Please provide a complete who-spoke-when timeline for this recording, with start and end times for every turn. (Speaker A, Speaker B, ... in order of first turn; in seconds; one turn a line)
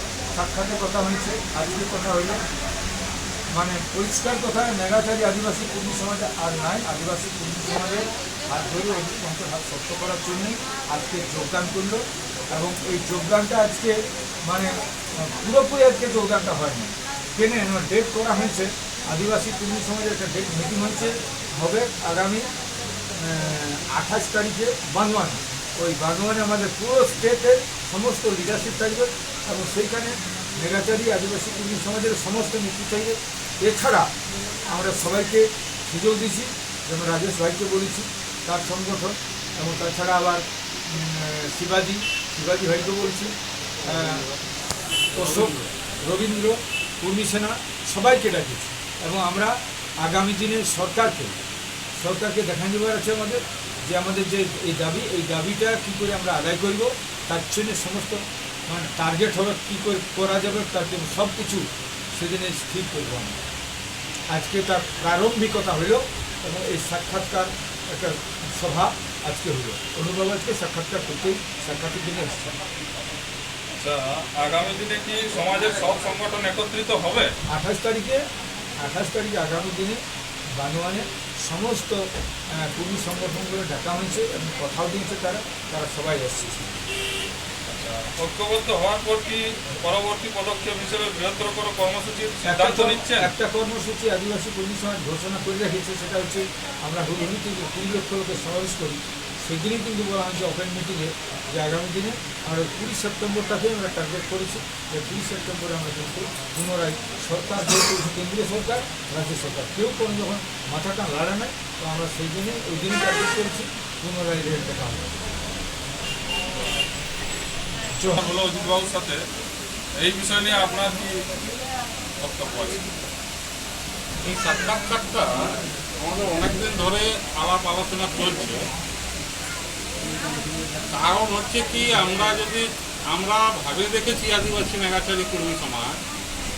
Speaker A: 0.3-2.4
Speaker A: 3.5-22.5
Speaker A: 23.1-34.1
Speaker A: 34.6-44.3
Speaker A: 45.1-51.4
Speaker B: 45.3-45.5
Speaker A: 52.0-63.4
Speaker A: 64.3-72.6
Speaker B: 73.8-77.3
Speaker A: 77.5-78.2
Speaker A: 78.8-80.0
Speaker A: 80.5-86.8
Speaker B: 87.7-93.3
Speaker A: 92.4-115.1
Speaker A: 118.0-118.2
Speaker B: 118.1-119.2
Speaker B: 120.0-121.2
Speaker B: 122.2-122.8
Speaker C: 124.2-128.6
Speaker C: 130.9-136.0